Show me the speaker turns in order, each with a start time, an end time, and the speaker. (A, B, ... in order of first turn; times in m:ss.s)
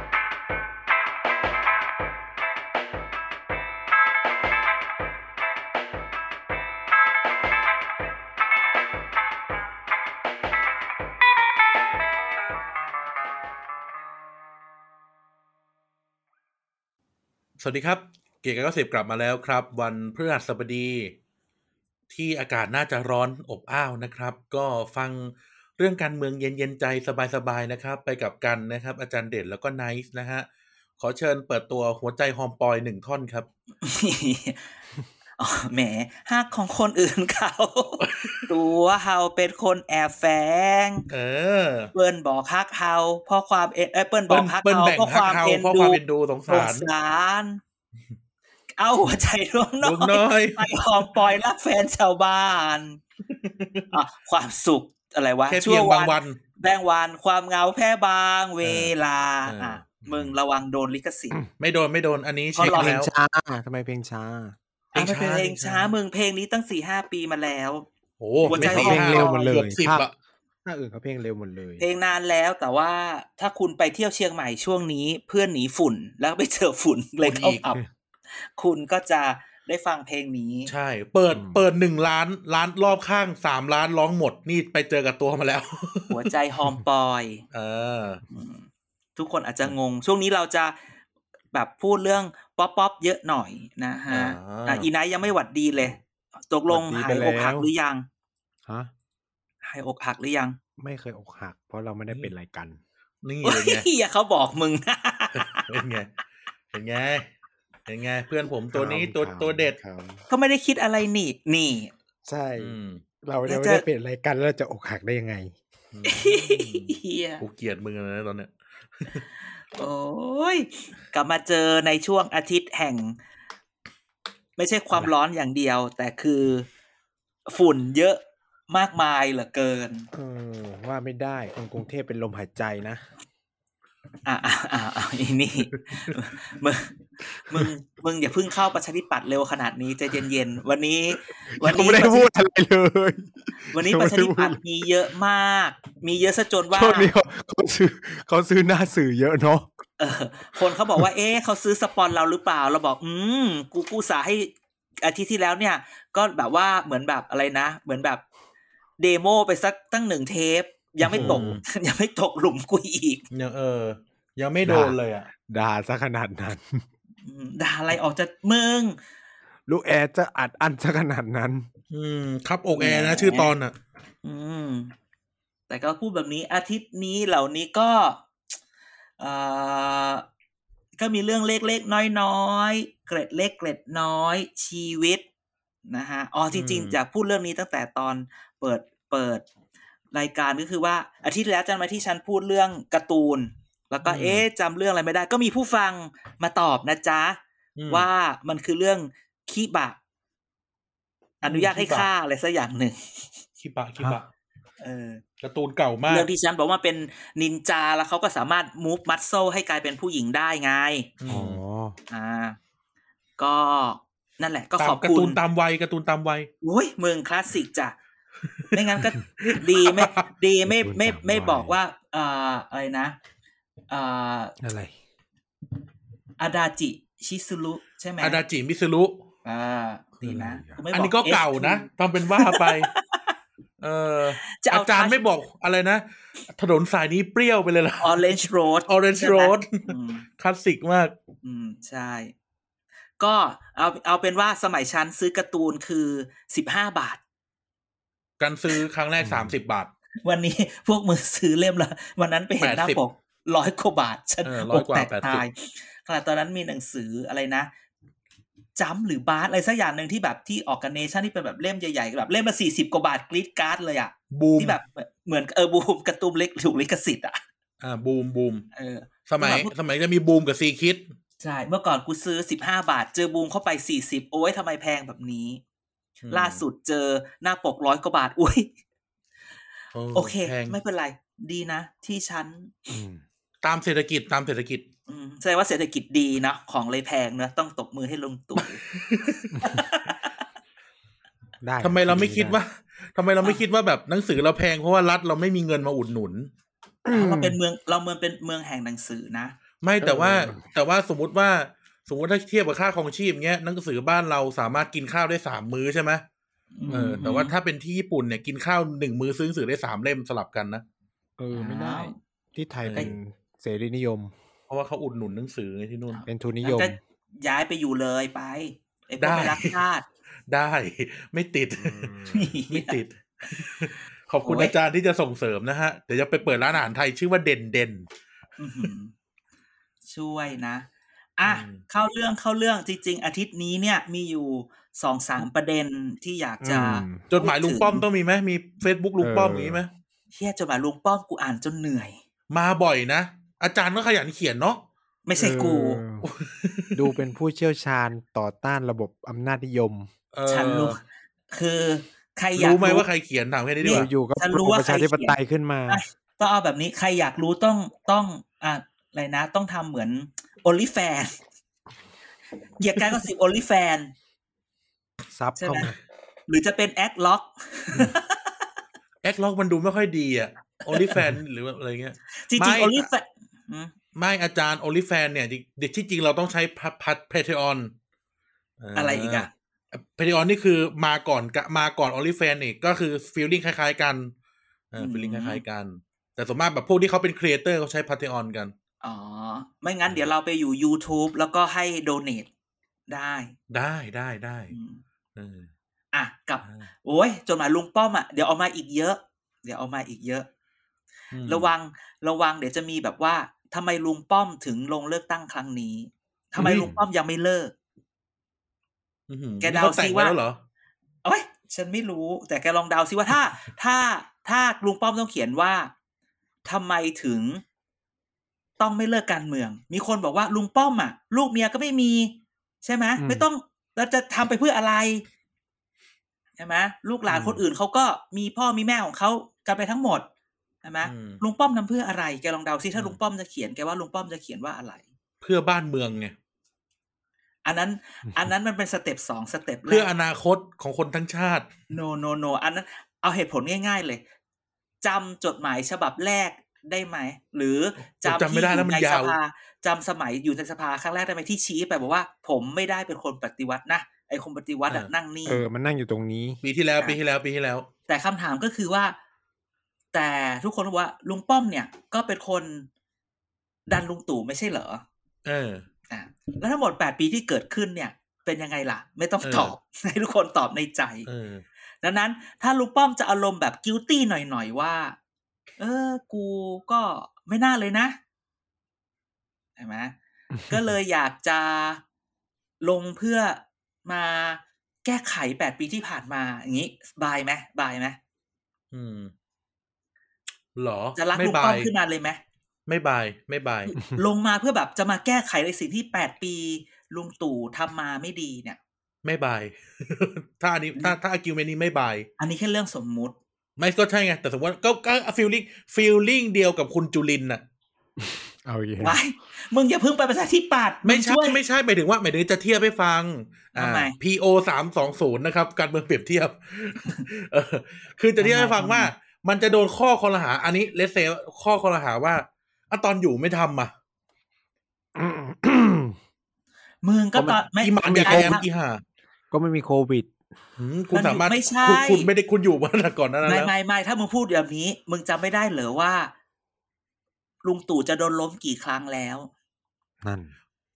0:17.6-0:21.1 A
0:22.1-0:30.5 A
0:31.0-0:33.5 A
0:33.8-0:34.7 B
0:35.4-0:41.0 B
0:38.0-0:38.5 A
0:41.1-0:41.9 A
0:41.9-0:47.6 B
0:44.3-0:46.9 A
0:48.8-0:53.0 B
0:49.8-0:50.8 A
0:53.3-0:53.9 A
0:53.9-1:01.4 B
0:55.5-0:56.4 A
0:58.6-0:58.9 A
0:59.4-1:00.3 A
1:01.6-1:03.1 A
1:02.6-1:03.0 B
1:02.7-1:04.6 C
1:04.9-1:07.9 B
1:04.9-1:05.9 A
1:08.2-1:10.1 A
1:08.4-1:09.5 B
1:08.5-1:10.1 C
1:10.6-1:11.8 C
1:11.8-1:17.8 B
1:17.2-1:17.6 A
1:18.4-1:20.7 B
1:20.7-1:26.2 A
1:21.3-1:21.6 C
1:26.1-1:27.4 B
1:27.5-1:28.2 A
1:28.3-1:30.8 B
1:31.5-1:36.0 B
1:34.1-1:34.9 A
1:36.5-1:38.0 B
1:36.7-1:37.7 C
1:39.6-1:40.6 B
1:40.8-1:42.8 C
1:43.2-1:43.8 A
1:43.4-1:45.7 B
1:45.3-1:46.1 A
1:46.7-1:47.3 A
1:47.9-1:49.8 A
1:48.7-1:50.2 C
1:50.3-1:51.9 B
1:52.2-1:55.6 C
1:52.6-1:53.0 A
1:53.4-1:53.8 B
1:55.9-1:58.5 A
1:56.0-1:57.4 B
1:59.8-2:03.2 B
2:04.6-2:06.7 B
2:07.5-2:10.1 B
2:10.1-2:13.0 C
2:14.2-2:22.3 B
2:21.6-2:24.6 C
2:23.5-2:27.1 B
2:26.7-2:29.7 C
2:30.0-2:38.2 B
2:39.0-2:43.2 B
2:41.0-2:41.6 C
2:41.1-2:41.6 A
2:43.3-2:45.3 A
2:44.6-2:46.8 C
2:47.2-2:49.0 B
2:49.7-2:51.7 C
2:51.9-2:53.7 A
2:52.7-2:53.5 B
2:54.2-2:54.9 B
2:55.7-2:58.2 B
2:59.2-3:00.2 B
3:01.0-3:05.2 B
3:05.9-3:09.4 B
3:06.5-3:07.0 A
3:10.1-3:17.4 B
3:14.0-3:14.4 A
3:17.8-3:18.1 A
3:17.9-3:20.0 B
3:21.4-3:23.3 B
3:21.4-3:22.1 A
3:23.6-3:24.3 A
3:24.8-3:25.2 B
3:25.4-3:26.3 A
3:26.1-3:31.1 B
3:31.2-3:31.6 A
3:31.3-3:32.0 C
3:32.1-3:32.6 B
3:33.4-3:35.4 B
3:34.8-3:36.5 A
3:36.6-3:38.0 B
3:38.7-3:43.2 B
3:39.4-3:40.3 A
3:40.6-3:41.8 C
3:43.9-3:44.6 B
3:44.6-3:44.9 C
3:46.4-3:48.4 B
3:48.2-3:49.2 A
3:49.4-3:53.3 B
3:50.2-3:50.8 C
3:50.9-3:52.9 A
3:53.8-3:58.2 A
3:54.4-3:55.2 B
3:58.0-4:00.2 B
3:58.9-4:01.1 A
4:01.4-4:02.3 B
4:03.2-4:07.2 B
4:08.4-4:09.9 A
4:09.2-4:09.6 C
4:10.2-4:17.7 B
4:12.6-4:13.0 A
4:14.4-4:15.4 A
4:18.8-4:27.4 B
4:24.3-4:24.8 A
4:27.8-4:28.6 A
4:28.7-4:29.7 B
4:29.3-4:31.1 A
4:31.4-4:35.6 B
4:36.2-4:36.6 A
4:36.3-4:38.7 B
4:39.9-4:40.8 A
4:40.1-4:43.0 B
4:42.9-4:43.2 C
4:43.6-4:44.8 A
4:45.1-4:48.8 B
4:48.6-4:49.5 A
4:49.6-4:50.3 B
4:51.6-4:52.6 C
4:51.8-4:56.5 A
4:57.0-4:57.6 C
4:57.1-4:59.5 B
4:59.8-5:06.2 A
5:00.0-5:00.6 C
5:06.7-5:07.5 B
5:06.9-5:10.8 A
5:11.4-5:14.3 C
5:11.5-5:12.1 B
5:12.8-5:13.1 A
5:14.7-5:16.2 A
5:16.1-5:20.0 B
5:16.2-5:17.0 C
5:19.2-5:19.8 A
5:20.5-5:28.1 A
5:21.8-5:22.3 C
5:22.2-5:23.0 B
5:24.4-5:24.7 B
5:28.6-5:29.1 B
5:30.0-5:30.9 B
5:31.4-5:38.0 B
5:31.4-5:31.8 A
5:36.6-5:37.2 C
5:37.3-5:39.9 A
5:39.2-5:39.8 C
5:40.4-5:42.2 B
5:42.5-5:44.8 A
5:45.2-5:46.0 B
5:45.4-5:46.2 C
5:46.2-5:47.0 A
5:46.9-5:50.1 C
5:50.3-5:51.0 A
5:50.5-5:51.0 B
5:51.5-5:53.0 B
5:52.6-5:54.1 A
5:53.8-5:55.4 B
5:53.8-5:56.0 C
5:55.9-6:01.4 B
6:02.8-6:04.1 B
6:05.3-6:05.9 C
6:05.6-6:05.9 B
6:06.5-6:08.5 B
6:09.2-6:13.1 A
6:10.9-6:11.2 B
6:12.4-6:13.9 B
6:14.1-6:17.9 A
6:18.8-6:24.3 A
6:18.9-6:19.5 B
6:24.9-6:28.7 A
6:25.0-6:25.6 B
6:29.0-6:32.5 B
6:33.1-6:33.5 B
6:33.7-6:34.7 A
6:34.7-6:35.0 B
6:35.4-6:35.7 A
6:36.1-6:40.5 B
6:41.3-6:41.7 A
6:41.4-6:47.7 B
6:46.6-6:46.9 A
6:49.3-6:50.6 A
6:49.6-6:50.4 B
6:51.2-6:55.9 B
6:56.6-6:57.6 B
6:58.8-7:05.2 B
7:03.2-7:03.4 C
7:06.6-7:10.2 B
7:07.3-7:07.6 A
7:10.8-7:15.0 B
7:11.0-7:11.4 A
7:15.4-7:16.3 A
7:17.6-7:20.1 B
7:19.9-7:21.7 A
7:21.9-7:24.2 B
7:25.0-7:35.6 B
7:28.2-7:29.4 A
7:35.5-7:36.6 C
7:36.6-7:37.9 A
7:38.1-7:39.1 B
7:40.1-7:42.9 B
7:43.9-7:45.0 B
7:45.4-7:45.8 A
7:46.1-7:51.3 B
7:49.4-7:49.7 A
7:51.2-7:51.6 A
7:52.0-7:55.2 B
7:55.8-7:58.2 B
7:59.8-8:00.1 B
8:00.7-8:02.0 B
8:02.8-8:08.2 B
8:08.9-8:09.3 A
8:10.8-8:11.9 A
8:11.2-8:12.4 B
8:12.9-8:13.9 A
8:13.9-8:18.8 B
8:19.2-8:22.3 A
8:22.4-8:23.4 B
8:23.8-8:27.6 A
8:28.2-8:29.2 C
8:29.0-8:31.6 B
8:31.0-8:43.9 A
8:33.7-8:34.2 B
8:38.4-8:39.1 B
8:45.1-8:46.2 C
8:47.0-8:48.6 B
8:47.3-8:48.6 C
8:47.8-8:49.0 A
8:49.5-8:50.3 C
8:50.8-8:53.7 A
8:51.1-8:52.3 B
8:53.4-8:56.3 B
8:57.6-8:59.5 B
9:00.2-9:00.5 C